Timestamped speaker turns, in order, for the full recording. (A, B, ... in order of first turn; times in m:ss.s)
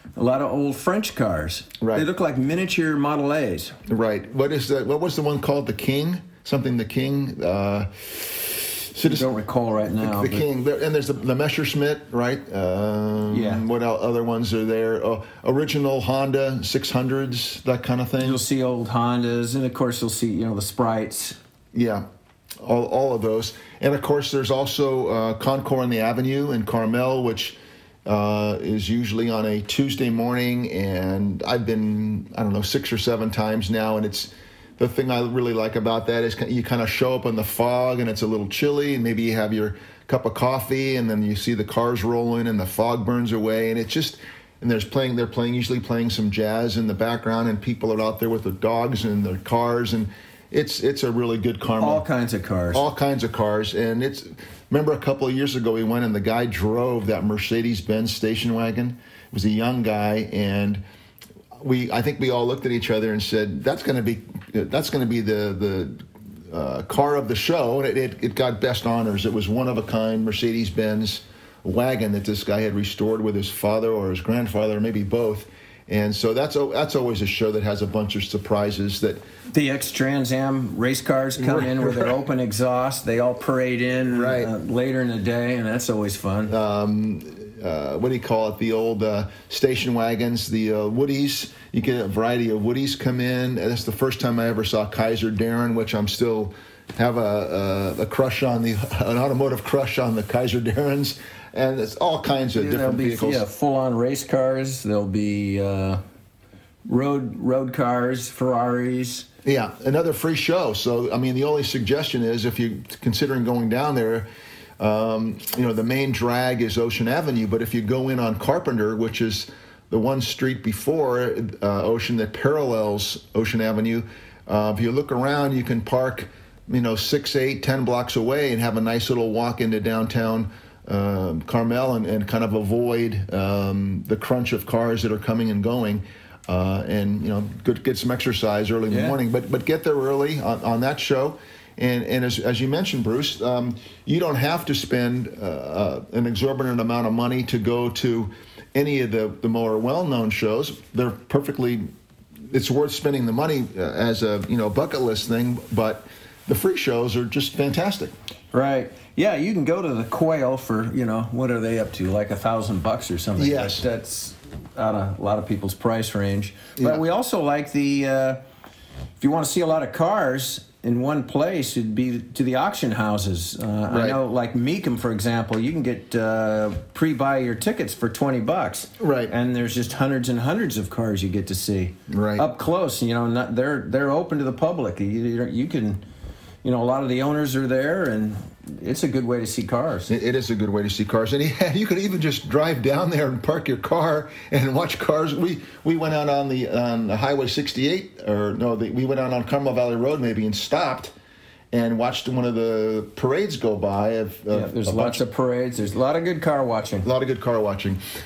0:00.2-0:03.8 A
0:01.8-0:02.1 B
0:03.9-0:09.3 B
0:09.0-0:10.4 A
0:10.0-0:18.4 B
0:13.3-0:13.6 A
0:18.2-0:21.4 A
0:21.7-0:22.0 B
0:22.6-0:52.0 B
0:51.8-0:52.8 A
0:52.7-1:00.8 B
1:01.6-1:19.2 B
1:19.5-1:26.5 A
1:21.4-1:22.2 B
1:24.1-1:24.5 B
1:26.5-1:43.4 B
1:42.6-1:46.0 A
1:46.9-1:49.3 A
1:49.4-1:54.3 B
1:54.8-2:31.9 B
2:18.9-2:19.2 A
2:32.5-2:38.1 B
2:38.5-2:48.4 A
2:43.4-2:43.8 B
2:46.8-2:47.0 B
2:49.2-3:06.0 A
2:53.9-2:54.2 B
2:59.0-2:59.3 B
3:02.1-3:02.4 B
3:06.6-3:10.1 A
3:10.1-3:21.1 B
3:21.7-3:25.2 B
3:24.5-3:27.1 A
3:27.0-3:28.0 B